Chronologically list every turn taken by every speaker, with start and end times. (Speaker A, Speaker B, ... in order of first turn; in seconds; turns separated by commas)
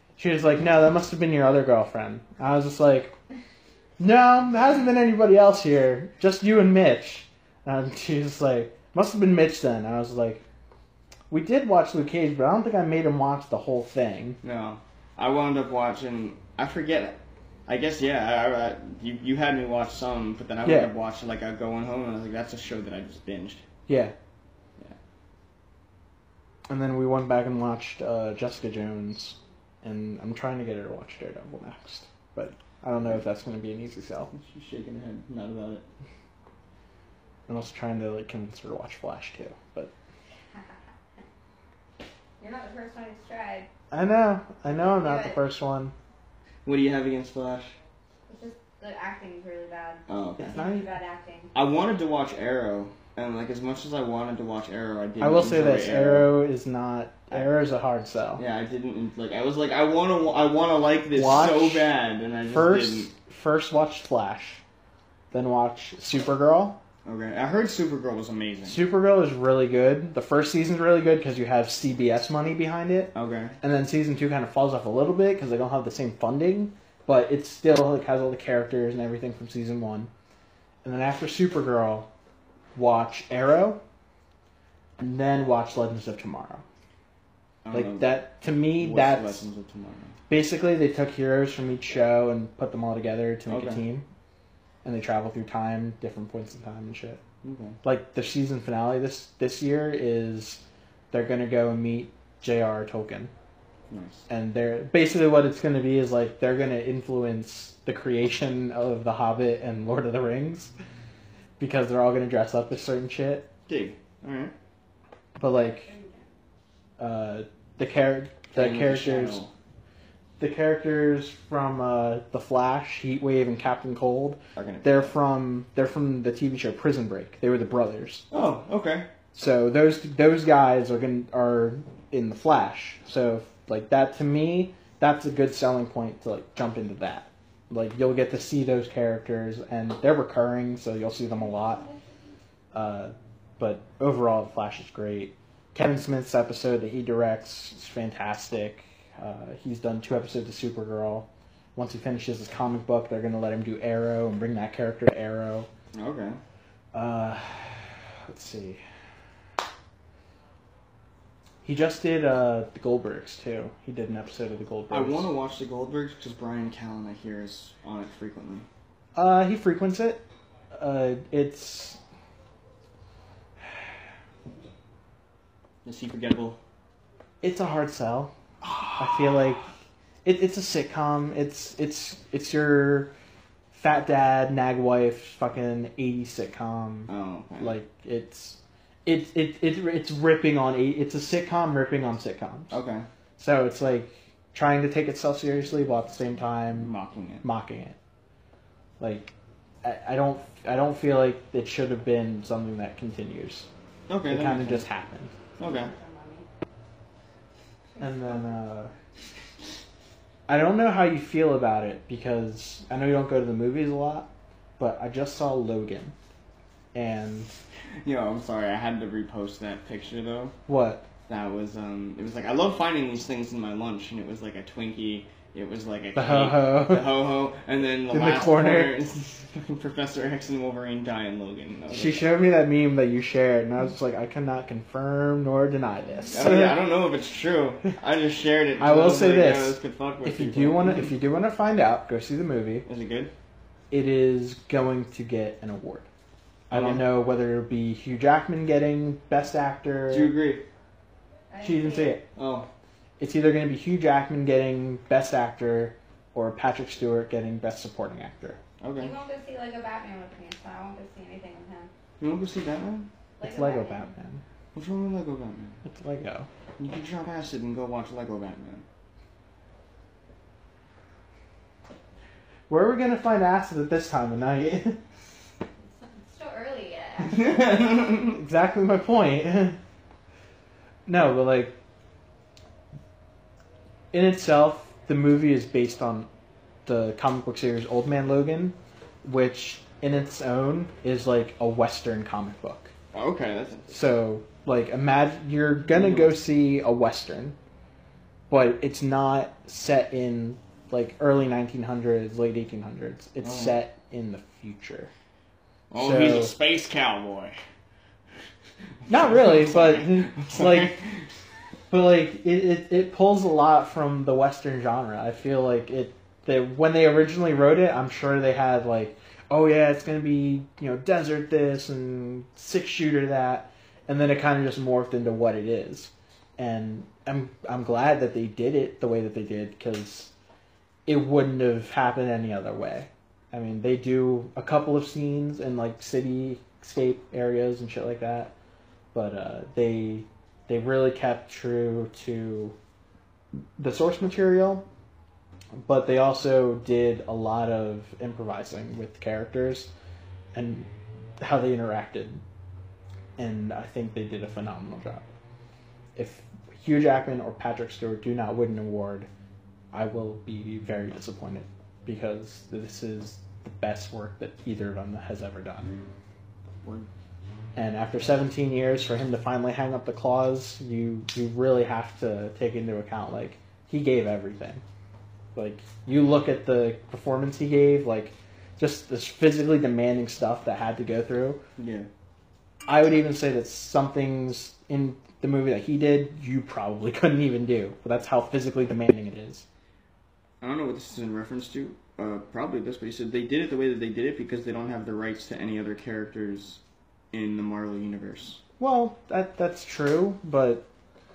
Speaker A: 0.2-3.1, Speaker A: 4.0-10.4, Speaker A: 11.3-14.4, Speaker B: 14.4-23.6, Speaker A: 20.6-20.9, Speaker A: 23.9-24.1, Speaker A: 26.7-34.3, Speaker B: 34.3-35.9, Speaker A: 37.5-39.9, Speaker C: 42.4-43.7, Speaker A: 43.9-45.9, Speaker C: 44.7-45.4, Speaker B: 46.6-47.8, Speaker C: 48.3-51.5, Speaker B: 50.1-50.6, Speaker A: 50.4-50.9, Speaker B: 51.5-56.3, Speaker A: 55.2-58.4, Speaker B: 58.4-63.1, Speaker A: 61.1-61.9, Speaker A: 62.5-64.6, Speaker A: 65.3-66.8, Speaker B: 67.0-68.8, Speaker A: 68.6-80.1, Speaker B: 73.1-73.6, Speaker A: 80.8-82.1, Speaker A: 82.7-83.8, Speaker A: 85.0-86.6, Speaker B: 87.6-88.2, Speaker A: 87.7-89.5, Speaker B: 88.8-90.2, Speaker A: 90.3-94.0, Speaker B: 93.5-93.8, Speaker A: 94.8-97.2, Speaker B: 97.4-97.8, Speaker A: 97.8-103.3, Speaker B: 103.9-104.2, Speaker A: 104.3-110.7, Speaker A: 111.6-113.5, Speaker B: 113.7-114.5, Speaker A: 115.4-115.9, Speaker C: 115.5-116.2, Speaker A: 117.0-119.4, Speaker B: 118.5-119.5, Speaker A: 120.4-128.2, Speaker B: 124.5-125.1, Speaker B: 128.3-129.1, Speaker A: 129.3-141.8, Speaker A: 142.7-155.7, Speaker B: 155.9-156.4, Speaker A: 156.9-158.8, Speaker A: 161.6-165.3, Speaker B: 164.9-168.7, Speaker A: 169.1-172.0, Speaker B: 175.8-176.6, Speaker A: 177.4-178.3, Speaker B: 178.6-179.3, Speaker A: 179.0-179.7, Speaker A: 180.2-183.1, Speaker A: 183.7-192.7, Speaker B: 187.1-187.7, Speaker B: 192.7-193.1, Speaker A: 193.4-197.9, Speaker B: 196.8-197.4, Speaker A: 199.0-199.3, Speaker A: 199.8-203.7, Speaker B: 204.1-204.8, Speaker A: 204.3-205.3, Speaker B: 205.6-205.9, Speaker C: 205.6-206.5, Speaker C: 208.0-208.3, Speaker A: 208.0-208.9, Speaker A: 210.5-216.1, Speaker A: 216.9-217.5, Speaker B: 218.0-220.6, Speaker A: 220.7-221.0, Speaker B: 221.3-232.2, Speaker A: 226.1-227.2, Speaker A: 228.1-228.9, Speaker A: 231.9-236.7, Speaker B: 236.3-241.1, Speaker A: 238.8-242.8, Speaker B: 242.8-243.3, Speaker A: 243.9-246.1, Speaker A: 246.7-250.3, Speaker B: 246.7-247.1, Speaker B: 250.1-250.6, Speaker C: 251.5-252.2, Speaker A: 251.6-252.2, Speaker B: 252.3-252.7, Speaker A: 253.2-258.6, Speaker B: 258.8-259.1, Speaker C: 259.0-261.9, Speaker B: 262.2-263.1, Speaker C: 263.4-264.1, Speaker A: 263.4-264.4, Speaker B: 264.7-265.8, Speaker A: 265.9-266.5, Speaker B: 266.8-268.8, Speaker A: 272.7-275.0, Speaker C: 275.9-278.1, Speaker B: 277.3-278.3, Speaker A: 278.3-279.8, Speaker A: 281.1-281.8, Speaker A: 284.1-286.3, Speaker A: 286.9-292.9, Speaker B: 293.1-294.0, Speaker A: 293.9-297.6, Speaker B: 295.9-296.3, Speaker A: 298.5-305.1, Speaker B: 303.4-303.8, Speaker B: 305.9-307.6, Speaker A: 306.0-306.5, Speaker B: 309.1-311.0, Speaker A: 309.1-311.0, Speaker A: 311.9-330.3, Speaker A: 331.1-338.5, Speaker A: 339.1-342.8, Speaker A: 343.8-344.9, Speaker A: 345.8-349.9, Speaker A: 350.5-352.4, Speaker A: 353.4-355.2, Speaker A: 356.1-359.3, Speaker A: 359.9-365.9, Speaker B: 366.8-367.1, Speaker A: 367.8-374.8, Speaker A: 375.5-381.6, Speaker B: 381.8-382.1, Speaker A: 382.9-389.6, Speaker B: 390.6-396.8, Speaker B: 397.3-398.6, Speaker A: 398.8-400.9